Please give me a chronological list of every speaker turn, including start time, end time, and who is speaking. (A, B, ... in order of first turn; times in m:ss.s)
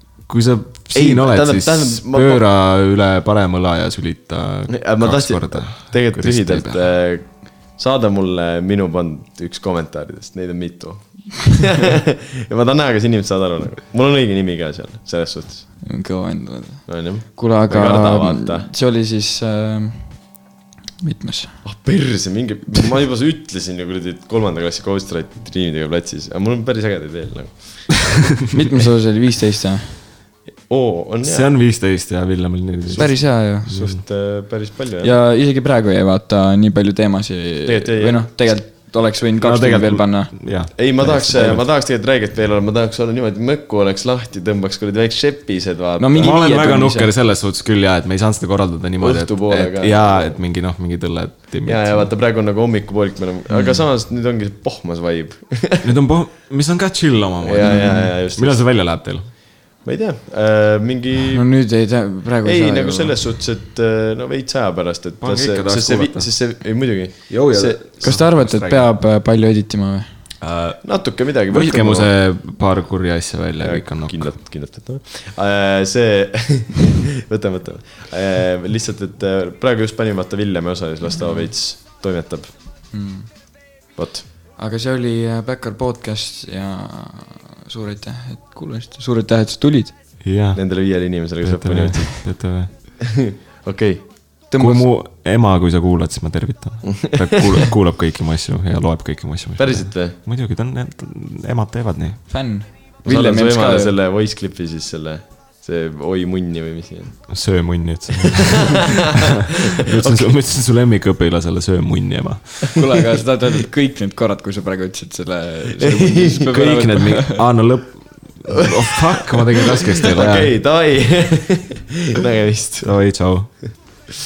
0:00.3-0:06.9 A
0:00.9-0:02.4 B
0:04.7-0:15.7 B
0:15.8-0:20.3 C
0:16.9-0:18.7 B
0:21.0-0:21.6 C
0:21.6-0:28.1 B
0:28.5-0:30.0 C
0:30.7-0:31.5 B
0:31.2-0:34.0 A
0:32.9-0:35.1 B
0:33.0-0:33.7 C
0:35.0-0:41.2 C
0:37.6-0:38.4 B
0:39.4-0:41.6 A
0:40.7-0:46.6 B
0:46.0-0:47.1 C
0:46.2-0:52.1 A
0:49.0-0:50.4 B
0:51.6-0:55.9 B
0:53.5-0:53.8 C
0:55.8-0:59.3 A
0:57.4-0:58.6 B
0:57.6-0:58.2 C
0:59.8-1:01.5 B
1:01.3-1:03.1 C
1:02.4-1:07.8 B
1:05.2-1:06.5 A
1:07.3-1:08.9 A
1:08.0-1:10.3 C
1:10.4-1:14.4 A
1:10.8-1:12.1 B
1:13.6-1:22.5 B
1:21.2-1:21.5 C
1:22.9-1:23.6 C
1:23.9-1:24.2 B
1:24.6-1:30.0 C
1:30.2-1:32.9 A
1:30.5-1:34.1 B
1:34.5-1:34.9 C
1:34.6-1:42.4 A
1:39.6-1:40.2 B
1:42.3-1:43.9 C
1:43.0-1:47.6 B
1:47.3-1:52.8 A
1:48.3-1:48.9 B
1:49.9-1:50.3 B
1:52.8-1:57.4 C
1:55.8-1:56.5 B
1:56.5-2:00.5 A
2:00.0-2:03.2 B
2:02.8-2:03.8 A